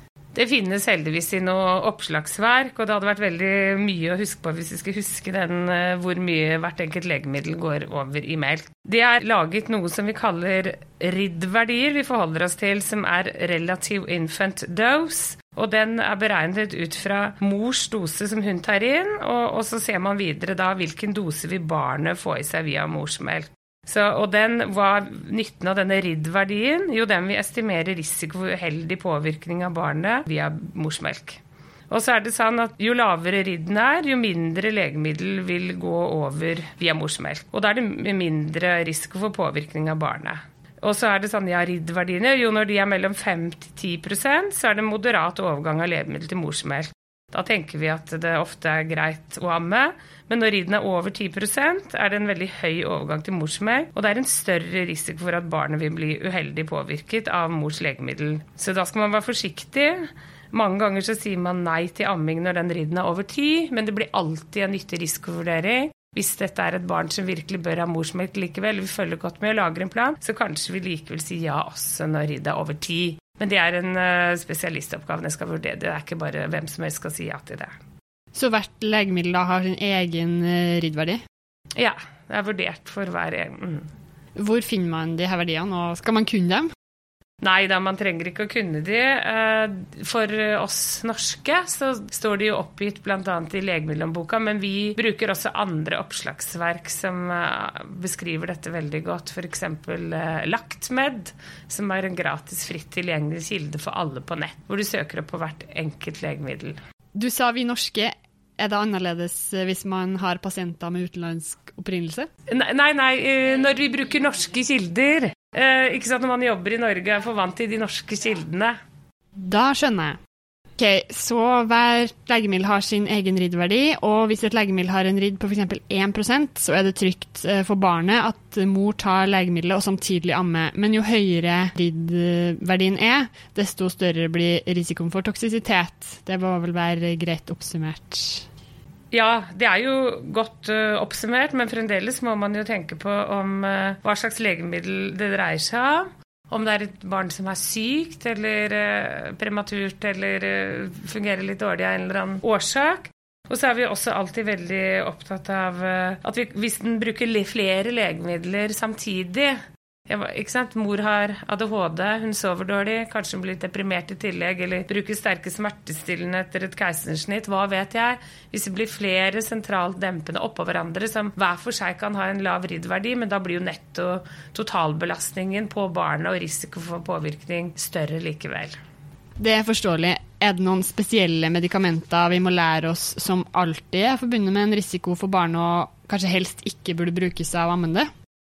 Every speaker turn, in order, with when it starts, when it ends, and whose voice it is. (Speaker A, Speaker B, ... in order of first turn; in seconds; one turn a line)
Speaker A: 0.3-77.7
Speaker B: 78.3-81.2
Speaker A: 81.7-83.9
Speaker B: 84.3-86.7
Speaker A: 87.4-106.8
Speaker B: 107.1-112.3
Speaker A: 112.5-118.8
Speaker B: 119.3-120.2
Speaker B: 120.8-138.5
Speaker A: 139.1-178.8
Speaker B: 179.4-188.1